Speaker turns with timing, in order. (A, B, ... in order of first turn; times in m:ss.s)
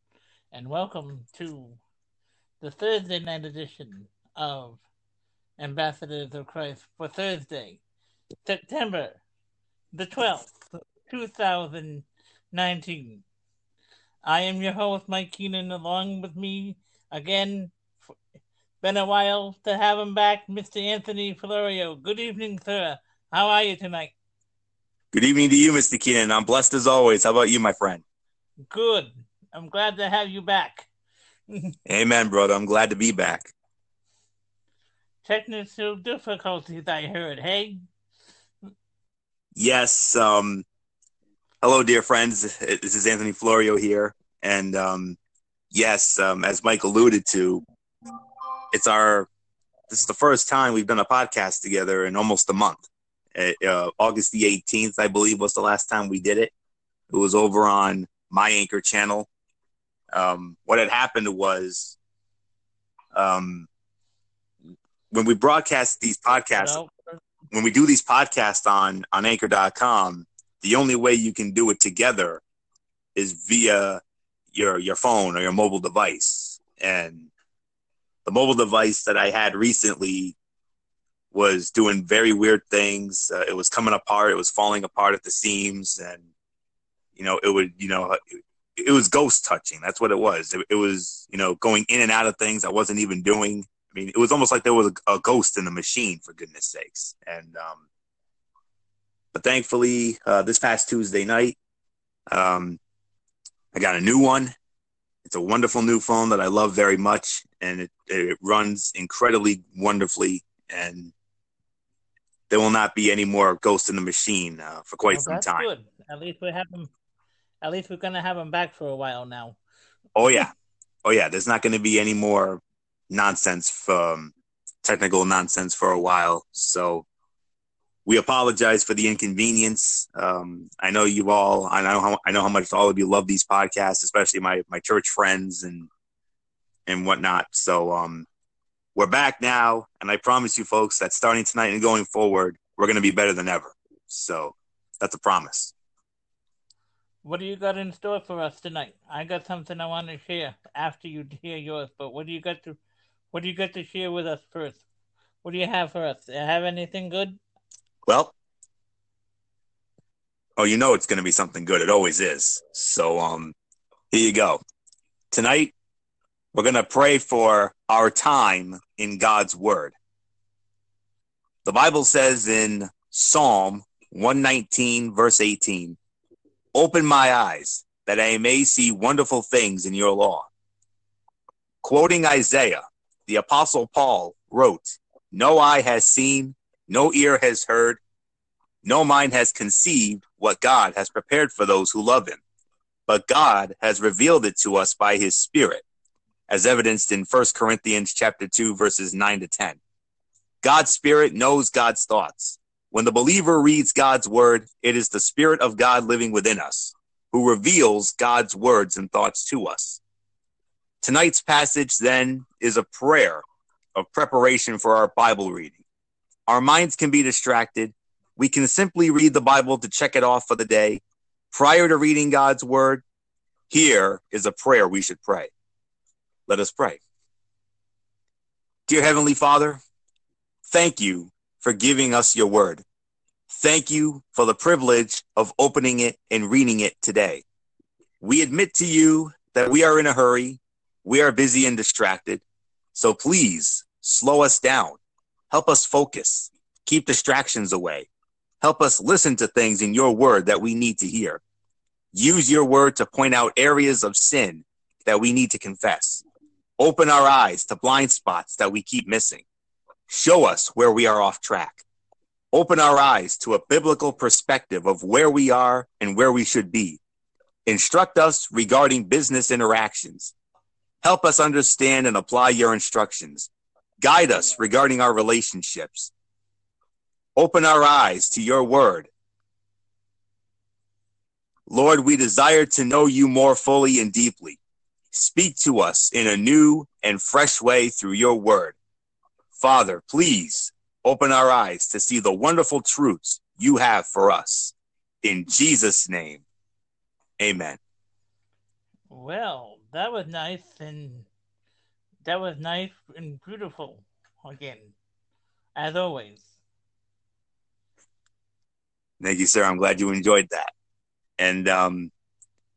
0:00.5-0:01.8 A
0:02.6-0:04.8 A
0:05.6-0:07.8 A
0:08.4-0:09.2 A
0:09.9-0:13.2 A
0:14.2-0:17.8 A
0:18.8-0:24.1 A
0:25.1-0:28.0 B
0:28.7-0:30.9 A
0:31.9-0:33.5 B
0:35.2-0:37.8 A
0:39.6-0:40.6 B
0:41.6-0:45.2 B
0:45.7-0:47.6 B
0:48.7-0:49.3 B
0:49.9-0:56.5 B
0:57.1-0:59.3 B
1:00.1-1:02.0 B
1:03.1-1:03.7 B
1:05.1-1:06.8 B
1:06.5-1:07.2 A
1:07.5-1:12.4 B
1:13.2-1:14.0 B
1:14.5-1:17.3 B
1:18.2-1:20.4 B
1:21.3-1:26.2 B
1:27.1-1:28.2 B
1:28.8-1:37.8 B
1:39.3-1:41.6 B
1:42.3-1:42.8 B
1:43.7-1:44.5 B
1:45.2-1:51.1 B
1:52.5-1:55.7 B
1:55.1-1:56.9 A
1:57.6-1:59.6 A
2:00.2-2:00.5 B
2:01.0-2:07.0 B
2:08.0-2:15.9 B
2:16.9-2:18.3 B
2:18.9-2:25.7 B
2:27.2-2:32.8 A
2:33.3-2:34.8 A
2:35.4-2:37.4 A
2:38.0-2:38.3 B
2:40.6-2:43.6 B
2:44.1-2:44.6 B
2:45.3-2:45.7 B
2:46.5-2:50.0 B
2:51.6-2:56.0 B
2:56.7-3:00.5 B
3:01.8-3:08.0 B
3:08.8-3:12.4 B
3:13.1-3:15.8 B
3:16.5-3:19.8 B
3:20.6-3:30.0 B
3:31.0-3:33.4 B
3:34.0-3:35.8 B
3:36.5-3:43.0 B
3:43.7-3:45.5 B
3:46.5-3:47.0 B
3:48.9-3:49.8 B
3:50.6-3:52.8 B
3:53.5-3:57.4 B
3:58.2-4:05.0 B
4:05.5-4:08.1 B
4:08.6-4:11.4 B
4:12.1-4:16.2 B
4:16.8-4:19.4 B
4:20.1-4:21.8 B
4:22.5-4:27.0 B
4:27.6-4:30.3 B
4:31.0-4:36.1 B
4:37.4-4:39.1 B
4:41.7-4:44.6 B
4:45.1-4:48.8 B
4:49.6-4:56.4 B
4:57.4-4:57.8 B
4:59.1-5:01.3 A
5:02.2-5:04.9 A
5:05.8-5:06.5 A
5:09.2-5:10.7 B
5:11.4-5:12.1 B